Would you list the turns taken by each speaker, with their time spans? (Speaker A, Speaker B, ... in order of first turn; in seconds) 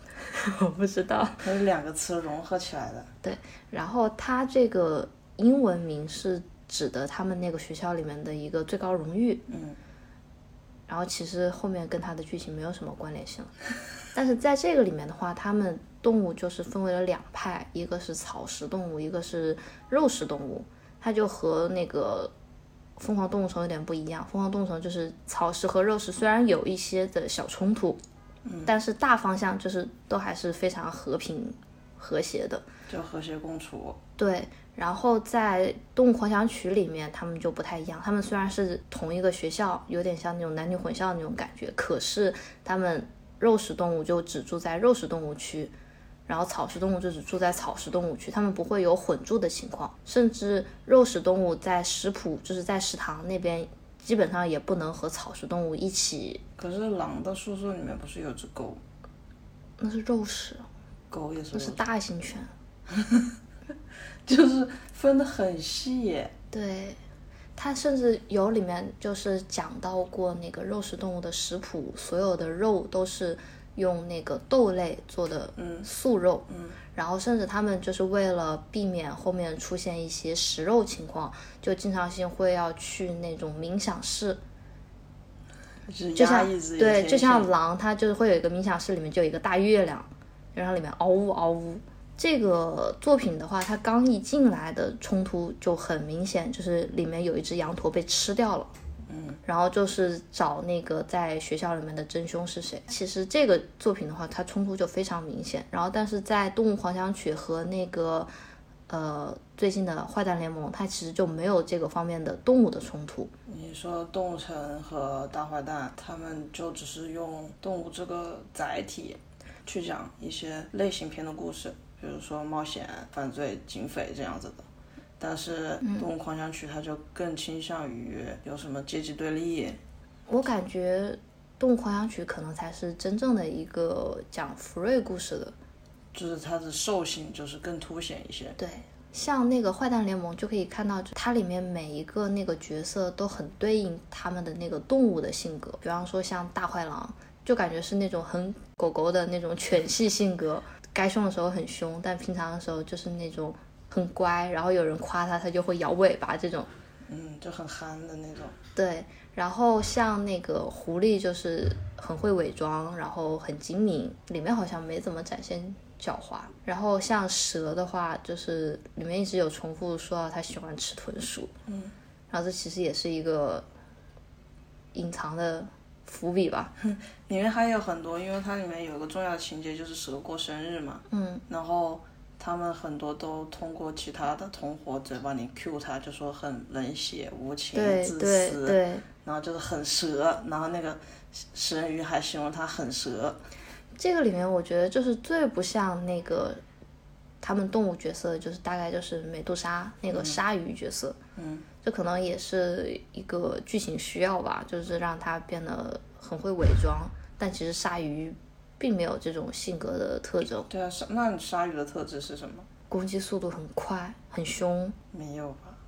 Speaker A: 0.2-1.5, 3.2-9.4, 10.9-13.5, 14.1-22.3, 23.0-28.0, 28.7-32.7, 34.2-45.7, 46.3-56.4, 59.8-60.6, 61.5-62.5, 66.5-67.0, 67.6-84.4, 86.2-98.7, 99.5-108.3, 108.9-113.3, 125.8-126.1, 130.3-135.5, 138.6-156.7, 158.8-171.5, 172.3-173.7, 174.9-176.7, 181.1-181.4, 187.7-189.1, 194.0-196.6, 197.4-201.2, 201.8-210.7, 212.9-215.0
Speaker B: 1.4-3.1, 9.5-9.8, 28.4-28.7, 32.9-34.0, 56.6-58.8, 61.1-61.8, 62.9-63.3, 64.3-66.3, 75.6-75.9, 76.5-76.8, 85.9-87.5, 99.1-99.4, 113.5-124.7, 125.2-129.8, 136.1-138.6, 157.1-158.6, 171.7-171.9, 176.8-193.4, 200.1-200.4, 201.4-201.7, 210.7-212.7, 215.1-215.8